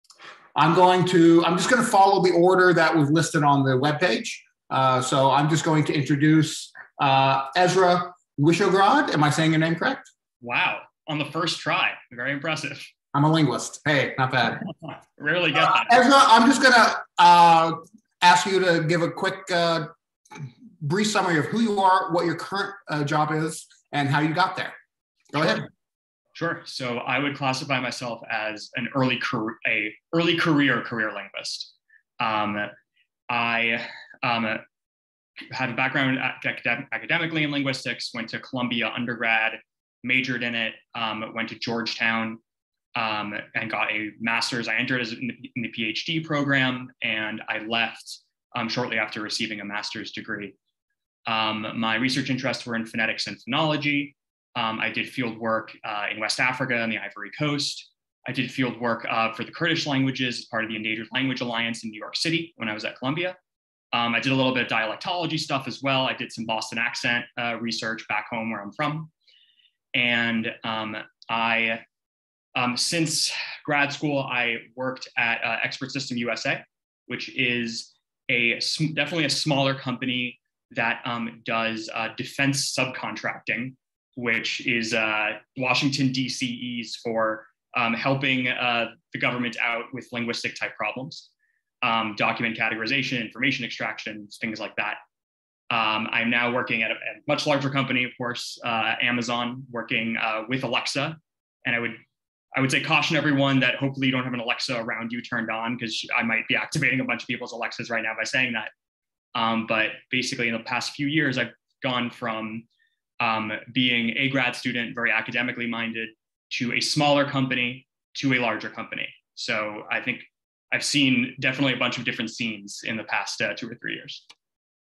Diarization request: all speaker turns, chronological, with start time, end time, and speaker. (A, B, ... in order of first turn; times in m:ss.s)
0:00.6-0:10.1 A
0:10.4-0:12.9 B
0:13.1-0:14.6 A
0:15.2-0:16.0 B
0:15.6-0:24.8 A
0:25.3-0:25.7 A
0:26.4-0:32.7 B
0:33.3-0:34.6 B
0:35.5-0:42.4 B
0:43.0-0:50.6 B
0:51.3-1:03.4 B
1:03.9-1:09.1 B
1:09.9-1:11.8 B
1:12.6-1:31.3 B
1:31.8-1:35.0 B
1:35.7-1:42.0 B
1:42.6-1:48.7 B
1:49.4-1:52.7 B
1:53.2-2:04.2 B